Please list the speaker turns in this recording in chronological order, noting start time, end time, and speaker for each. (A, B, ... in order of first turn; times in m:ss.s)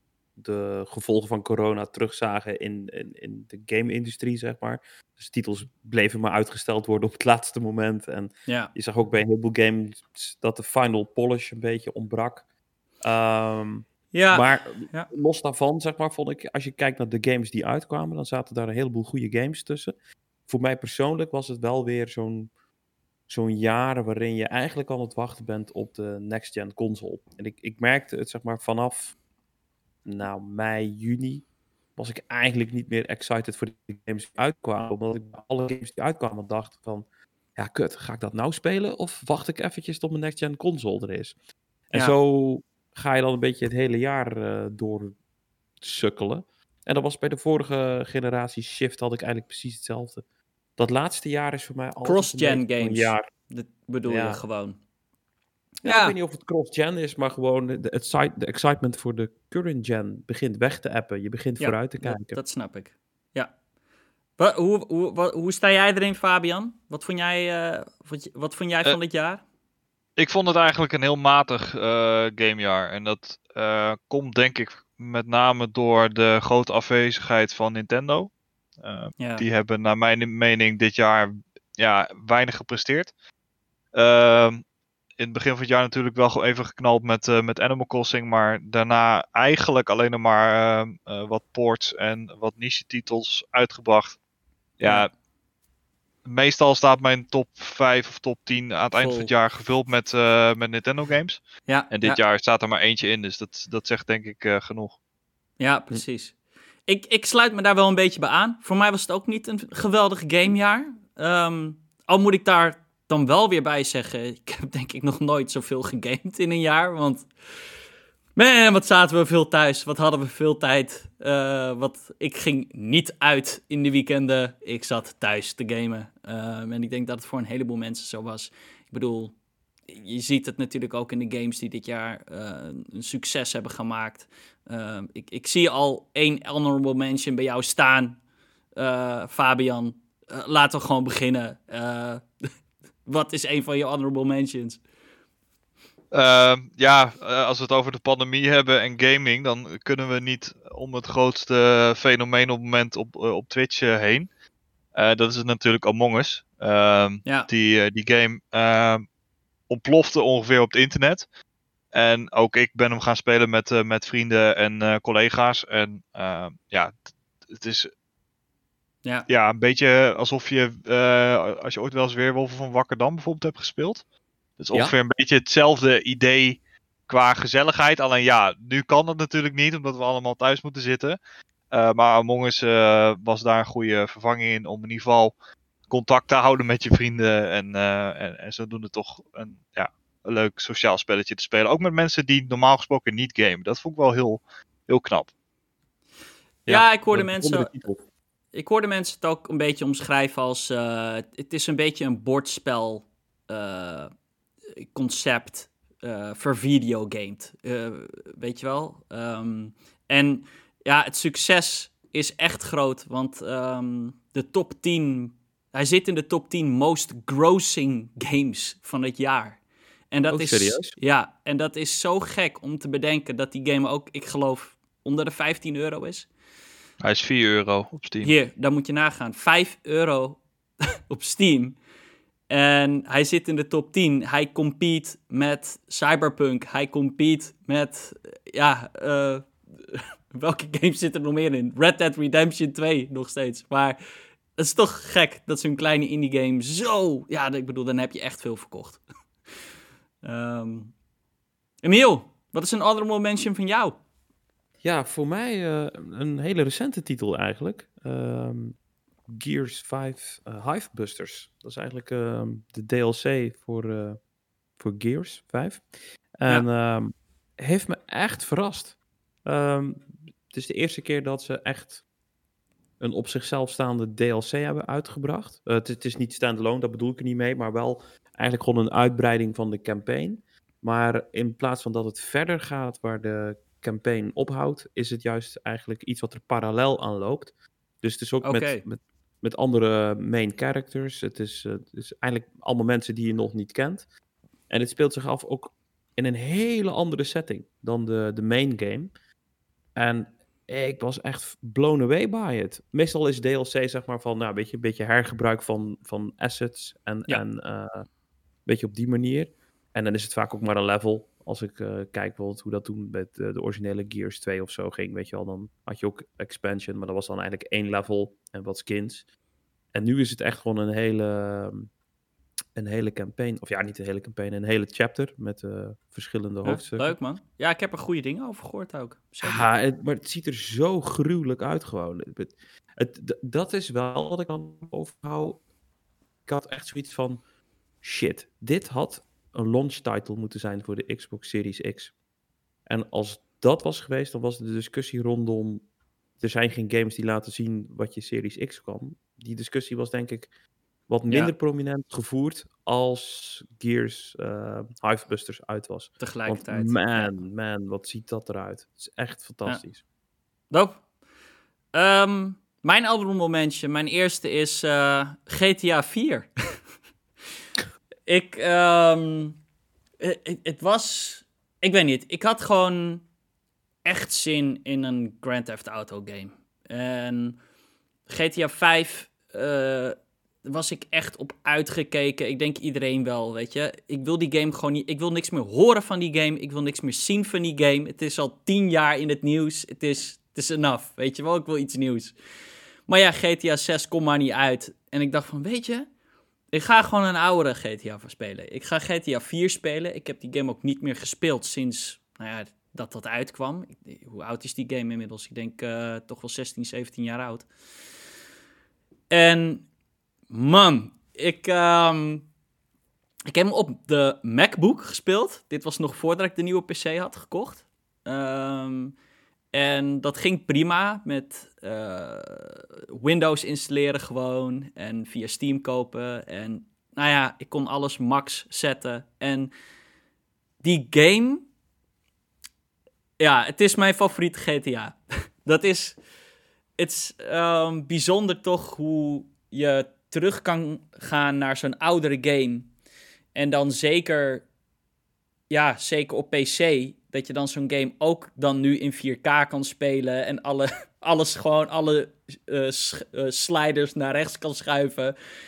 0:00.4-0:12.4 A
0:08.5-0:08.7 B
0:13.0-0:19.9 A
0:14.1-0:15.1 B
0:20.5-0:22.5 A
0:23.3-0:29.1 A
0:30.0-0:31.4 A
0:32.0-0:41.3 A
0:41.9-0:45.2 A
0:45.8-0:50.2 A
0:50.8-0:53.3 A
0:52.0-0:54.8 B
0:54.0-0:54.4 A
0:55.8-0:56.2 B
0:55.8-1:02.4 A
1:01.6-1:03.5 B
1:04.4-1:09.4 B
1:10.2-1:23.1 C
1:19.2-1:19.4 B
1:23.9-1:24.6 C
1:25.2-1:34.2 C
1:34.8-1:35.1 C
1:36.2-1:45.0 C
1:38.9-1:39.3 B
1:41.6-1:42.2 B
1:45.6-1:46.3 B
1:46.8-1:57.3 B
1:58.4-2:09.3 B
2:09.9-2:18.2 B
2:18.8-2:22.2 B
2:23.0-2:24.8 B
2:26.1-2:34.3 C
2:34.9-2:39.0 C
2:39.7-2:41.2 C
2:41.9-2:46.9 C
2:47.5-2:47.9 C
2:49.3-2:54.0 C
2:54.6-3:01.2 C
3:01.7-3:05.3 C
3:05.9-3:15.3 C
3:16.7-3:17.8 B
3:16.7-3:18.0 A
3:18.5-3:24.1 B
3:24.8-3:39.6 B
3:40.1-3:46.3 B
3:40.3-3:40.9 A
3:47.0-3:48.3 C
3:48.2-3:51.8 B
3:52.5-4:04.0 B
4:04.6-4:09.0 B
4:10.2-4:10.9 B
4:11.8-4:14.0 B
4:14.8-4:18.8 A
4:19.3-4:24.2 A
4:24.8-4:25.8 A
4:26.4-4:32.0 A
4:33.0-4:54.0 A
4:48.4-4:48.8 B
4:54.7-4:59.1 A
4:59.9-5:08.0 A
5:08.6-5:19.2 A
5:19.9-5:21.9 A
5:22.8-5:27.1 A
5:26.6-5:29.6 B
5:29.4-5:35.6 A
5:36.4-5:37.4 A
5:38.0-5:42.1 A
5:42.9-5:45.8 A
5:46.4-5:50.5 A
5:51.1-6:00.0 A
5:56.2-5:57.4 B
6:00.7-6:01.0 B
6:01.9-6:06.8 B
6:08.3-6:09.6 B
6:10.2-6:13.2 B
6:14.0-6:17.6 B
6:18.3-6:32.3 B
6:33.1-6:36.1 B
6:36.7-6:47.7 B
6:49.3-6:49.8 B
6:50.5-6:52.5 B
6:53.5-6:59.1 B
6:59.7-7:09.7 B
7:10.8-7:11.6 B
7:13.4-7:16.2 B
7:17.0-7:22.9 B
7:23.5-7:24.6 B
7:25.7-7:35.3 B